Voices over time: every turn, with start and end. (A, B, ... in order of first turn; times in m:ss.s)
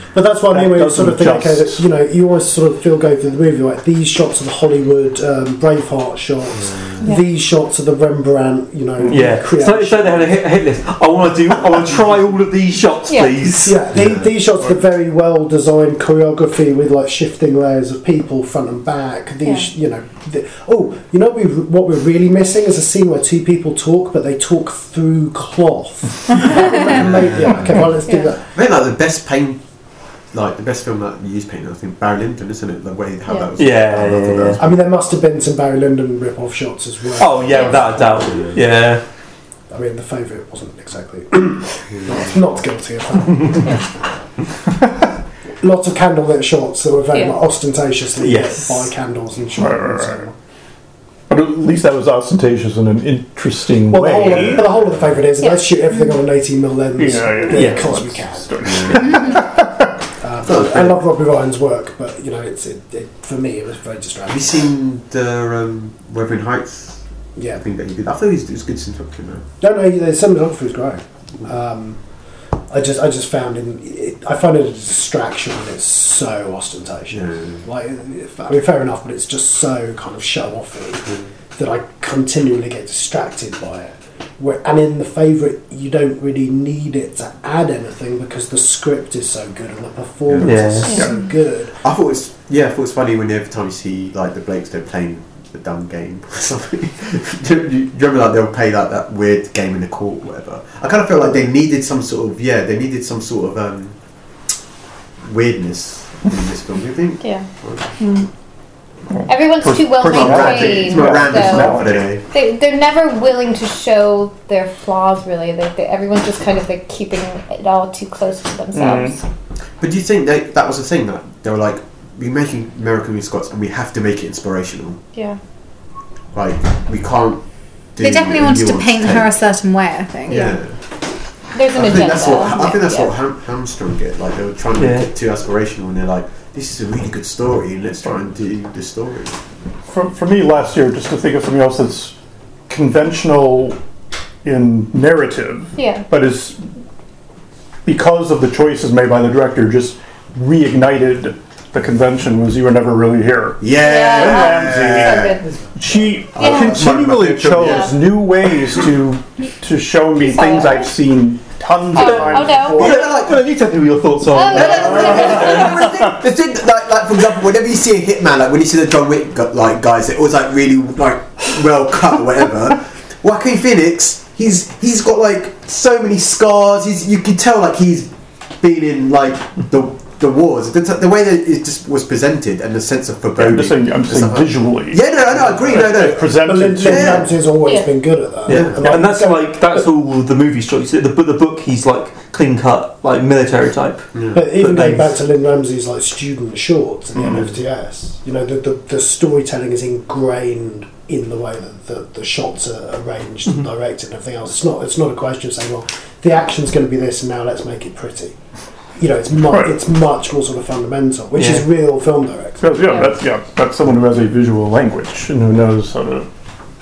0:00.1-0:10.4 A
0:00.5-0:01.8 B
0:09.0-0:13.8 C
0:13.1-0:13.4 D
0:13.6-0:28.4 A
0:13.9-0:14.4 E
0:26.8-0:27.9 E
0:28.1-0:28.3 D
0:28.5-0:29.6 E
0:30.3-0:34.8 E
0:33.6-0:34.6 C
0:34.6-0:38.5 A
0:37.2-0:39.0 C
0:37.5-0:38.0 D
0:39.7-0:43.8 A
0:45.6-0:50.4 A
0:48.2-0:48.9 C
0:49.6-0:50.2 B
0:51.3-0:54.8 B
0:53.9-0:58.5 A
0:55.4-0:56.0 D
0:57.0-1:00.0 B
0:57.5-0:57.9 C
0:58.6-0:59.3 E
1:00.2-1:04.6 A
1:00.4-1:01.0 E
1:04.3-1:07.0 E
1:07.4-1:07.6 A
1:07.5-1:09.5 E
1:09.6-1:12.0 A
1:12.7-1:31.8 A
1:17.1-1:17.6 E
1:30.3-1:30.6 E
1:30.4-1:31.0 C
1:31.8-1:44.0 E
1:45.2-1:48.2 E
1:47.2-1:47.5 D
1:49.1-1:52.0 B
1:49.3-1:59.2 D
1:49.9-1:52.2 E
1:58.7-1:59.2 B
1:59.8-2:05.0 E
2:05.1-2:05.4 D
2:06.3-2:07.4 E
2:08.0-2:09.4 E
2:08.0-2:10.6 F
2:10.3-2:10.8 E
2:11.5-2:13.1 D
2:11.7-2:19.4 E
2:14.8-2:15.1 C
2:19.9-2:22.2 B
2:22.7-2:23.8 B
2:24.4-2:26.6 B
2:25.8-2:26.1 D
2:27.9-2:43.2 B
2:33.6-2:35.4 E
2:33.8-2:35.4 D
2:36.4-2:38.0 E
2:36.4-2:36.8 D
2:37.6-2:37.9 D
2:40.2-2:40.9 D
2:41.9-2:43.0 D
2:42.0-2:45.7 C
2:42.6-2:43.4 E
2:44.3-2:46.1 D
2:44.4-3:06.3 E
3:03.4-3:07.3 B
3:06.3-3:09.8 A
3:06.8-3:07.3 E
3:08.5-3:08.9 E
3:08.5-3:15.2 C
3:14.1-3:14.5 E
3:14.3-3:28.4 A
3:29.0-3:32.7 A
3:29.5-3:29.8 B
3:31.4-3:31.7 C
3:32.6-3:36.3 B
3:32.8-3:33.1 D